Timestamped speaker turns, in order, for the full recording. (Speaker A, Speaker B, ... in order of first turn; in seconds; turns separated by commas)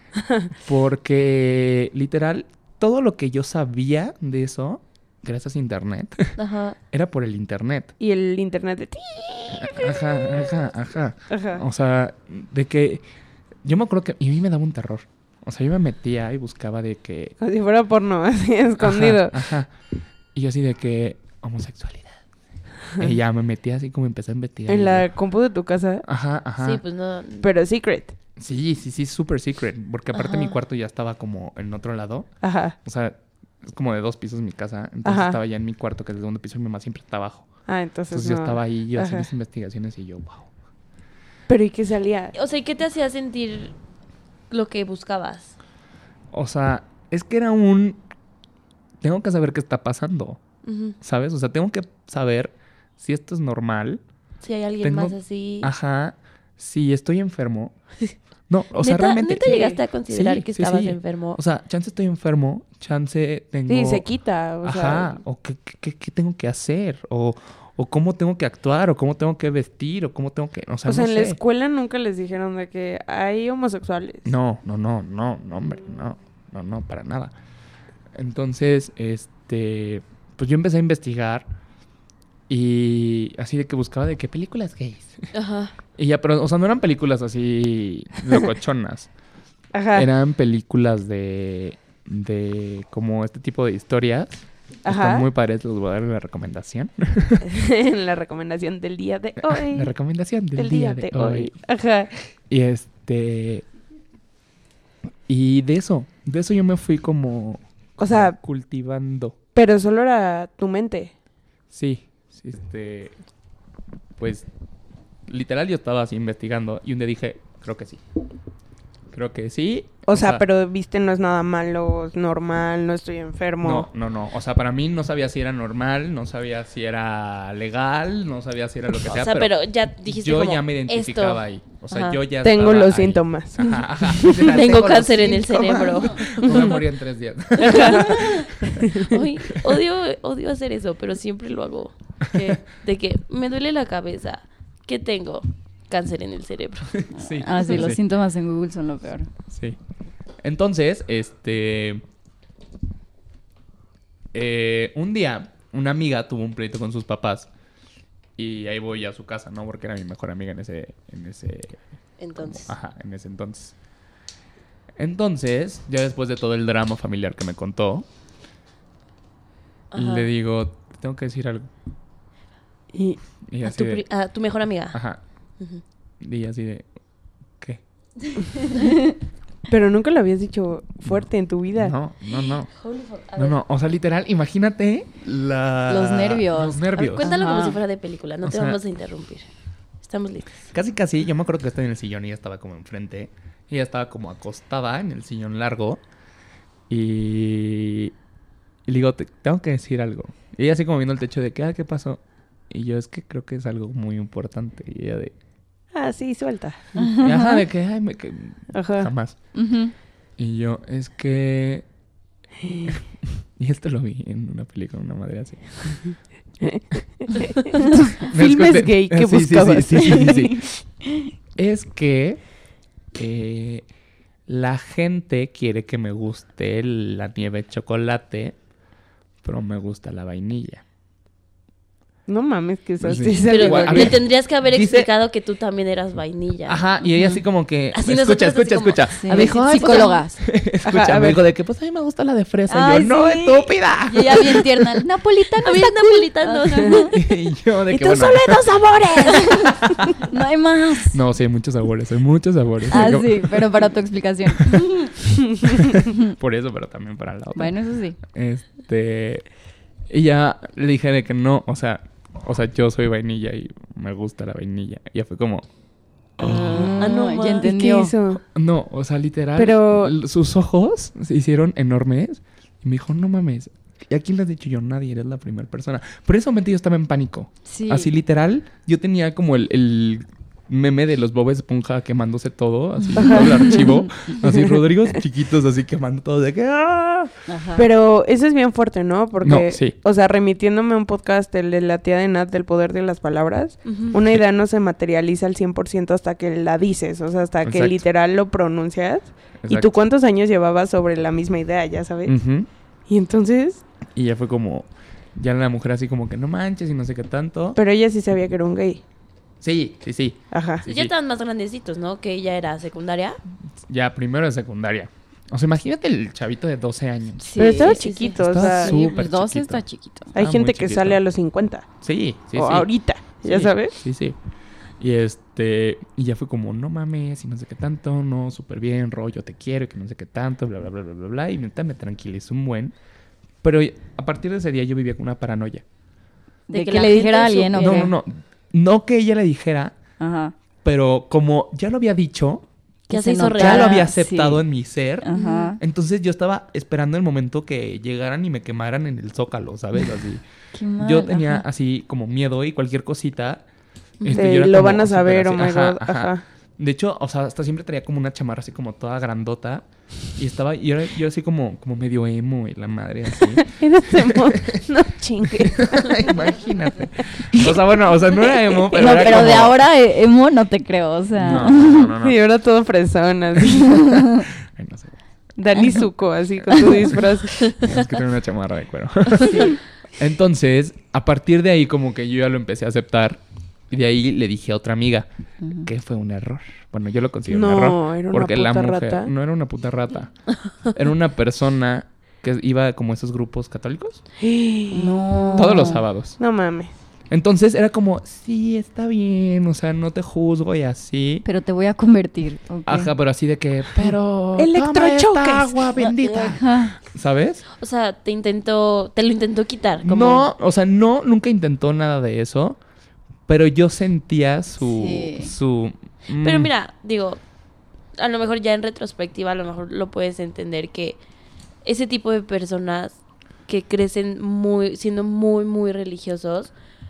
Speaker A: 0.6-6.4, Speaker B: 6.4-6.8, Speaker A: 6.9-7.9, Speaker C: 8.0-10.0, Speaker A: 9.5-13.0, Speaker C: 11.3-11.6, Speaker A: 13.6-17.3, Speaker C: 17.4-19.4, Speaker A: 18.8-19.7, Speaker A: 20.3-22.2, Speaker A: 22.9-25.1, Speaker C: 24.7-26.0, Speaker A: 26.0-26.8, Speaker B: 26.6-27.5, Speaker C: 27.4-28.1, Speaker A: 28.4-40.5, Speaker B: 30.1-30.5, Speaker C: 32.4-32.7, Speaker C: 35.0-35.4, Speaker C: 37.6-39.3, Speaker C: 41.5-42.3, Speaker B: 42.3-43.7, Speaker B: 44.5-45.5, Speaker A: 46.3-48.0, Speaker A: 49.0-50.4, Speaker B: 50.6-51.0, Speaker A: 51.0-54.0, Speaker B: 54.4-55.7, Speaker A: 54.8-57.7, Speaker A: 58.5-64.0, Speaker B: 58.8-61.4, Speaker C: 59.4-59.8, Speaker C: 63.7-65.1, Speaker A: 64.6-71.4, Speaker C: 70.8-74.2, Speaker A: 74.2-77.3, Speaker A: 78.1-81.5, Speaker A: 82.5-85.3, Speaker B: 85.3-85.7, Speaker A: 86.0-89.1, Speaker C: 89.7-90.0, Speaker A: 89.9-97.4, Speaker C: 94.8-95.2, Speaker C: 97.4-99.9, Speaker A: 99.5-101.5, Speaker C: 100.5-102.3, Speaker A: 102.5-103.7, Speaker A: 105.3-109.3, Speaker C: 108.0-108.4, Speaker C: 109.5-111.1, Speaker A: 111.7-113.1, Speaker A: 114.2-114.5, Speaker A: 115.2-118.0, Speaker A: 119.1-120.4, Speaker C: 120.0-123.9, Speaker A: 123.6-129.5, Speaker B: 129.0-132.2, Speaker A: 130.1-138.9, Speaker C: 132.4-134.7, Speaker B: 133.6-136.8, Speaker B: 137.6-147.8, Speaker C: 137.7-138.0, Speaker C: 138.8-139.2, Speaker A: 147.1-148.0, Speaker D: 147.1-149.3, Speaker A: 149.5-149.8, Speaker A: 150.4-152.0, Speaker A: 154.3-157.5, Speaker A: 158.4-161.8, Speaker B: 162.2-162.7, Speaker A: 162.5-163.7, Speaker A: 165.0-168.1, Speaker B: 169.9-170.3, Speaker A: 169.9-171.7, Speaker C: 172.9-173.2, Speaker A: 173.5-174.0, Speaker B: 173.6-175.0, Speaker A: 174.9-175.2, Speaker B: 175.6-175.8, Speaker A: 176.2-176.9, Speaker C: 179.7-181.9, Speaker A: 181.0-182.7, Speaker B: 182.3-183.6, Speaker A: 183.3-187.3, Speaker D: 185.9-187.8, Speaker B: 186.9-189.5, Speaker A: 188.4-188.8, Speaker B: 190.0-190.7, Speaker A: 190.7-196.0, Speaker A: 196.9-198.1, Speaker A: 198.8-205.3, Speaker C: 205.9-206.9, Speaker D: 207.0-207.6, Speaker A: 207.2-209.3, Speaker C: 208.7-209.1, Speaker D: 209.5-209.9, Speaker A: 210.4-211.8, Speaker C: 212.6-212.9, Speaker A: 212.9-216.1, Speaker C: 216.6-220.7, Speaker A: 218.2-223.8, Speaker A: 224.5-228.6, Speaker A: 229.4-230.8, Speaker C: 232.3-234.2, Speaker A: 233.0-235.1, Speaker B: 233.3-236.8, Speaker A: 236.7-244.4, Speaker D: 237.1-237.4, Speaker B: 237.9-240.2, Speaker D: 239.2-240.4, Speaker C: 240.8-241.4, Speaker D: 242.7-247.1, Speaker B: 244.1-244.8, Speaker B: 245.6-247.1, Speaker A: 247.1-248.8, Speaker C: 247.9-250.0, Speaker D: 249.3-251.2, Speaker A: 251.1-253.6, Speaker D: 252.9-254.9, Speaker A: 255.7-259.5, Speaker D: 257.6-258.2, Speaker A: 260.1-265.6, Speaker A: 266.4-267.1, Speaker D: 266.5-268.1, Speaker B: 267.0-267.7, Speaker C: 267.6-268.4, Speaker A: 268.5-287.3, Speaker C: 269.6-270.1, Speaker D: 277.6-278.1, Speaker D: 283.1-283.9, Speaker C: 283.1-283.9, Speaker C: 284.4-284.7, Speaker D: 287.5-287.8, Speaker C: 287.8-302.4, Speaker A: 289.4-289.9, Speaker B: 293.8-294.1, Speaker A: 297.6-298.0, Speaker A: 299.6-299.9, Speaker A: 302.2-302.7, Speaker C: 303.1-303.8, Speaker A: 304.1-307.8, Speaker C: 307.8-309.0, Speaker A: 309.6-311.1, Speaker C: 310.5-310.8, Speaker B: 310.8-313.4, Speaker A: 313.8-317.6, Speaker D: 317.4-318.0, Speaker C: 317.6-318.9, Speaker B: 317.6-319.1, Speaker A: 318.3-321.2, Speaker D: 318.9-320.3, Speaker C: 320.3-321.9, Speaker A: 322.0-324.4, Speaker C: 322.5-323.9, Speaker A: 325.0-332.9, Speaker A: 333.6-335.8, Speaker D: 336.7-338.1, Speaker B: 336.7-338.1, Speaker A: 337.8-340.0, Speaker D: 340.2-340.5, Speaker A: 340.8-342.6, Speaker D: 343.1-344.6, Speaker B: 343.1-344.1, Speaker A: 343.6-350.4, Speaker D: 345.2-345.8, Speaker B: 345.3-345.7, Speaker D: 350.7-351.6, Speaker A: 351.0-353.6, Speaker B: 354.2-354.6, Speaker A: 354.2-364.8, Speaker C: 354.3-356.4, Speaker C: 363.5-366.6, Speaker A: 365.6-369.8, Speaker C: 367.2-367.6, Speaker C: 368.5-369.3, Speaker D: 368.9-372.1, Speaker A: 371.4-372.4, Speaker C: 372.2-374.0, Speaker D: 373.9-374.4, Speaker A: 374.7-375.1, Speaker C: 375.6-377.9, Speaker A: 376.6-394.2, Speaker D: 385.6-385.9, Speaker C: 387.5-389.3, Speaker C: 394.4-396.9, Speaker D: 394.9-396.0, Speaker A: 395.5-396.4, Speaker A: 397.3-401.4, Speaker D: 401.4-403.1, Speaker A: 402.9-407.6, Speaker C: 404.6-406.1, Speaker D: 406.5-407.0, Speaker B: 407.8-410.5, Speaker A: 410.0-412.8, Speaker A: 413.5-416.7, Speaker D: 414.8-415.5, Speaker B: 416.3-417.4, Speaker B: 418.1-421.2, Speaker B: 421.8-426.7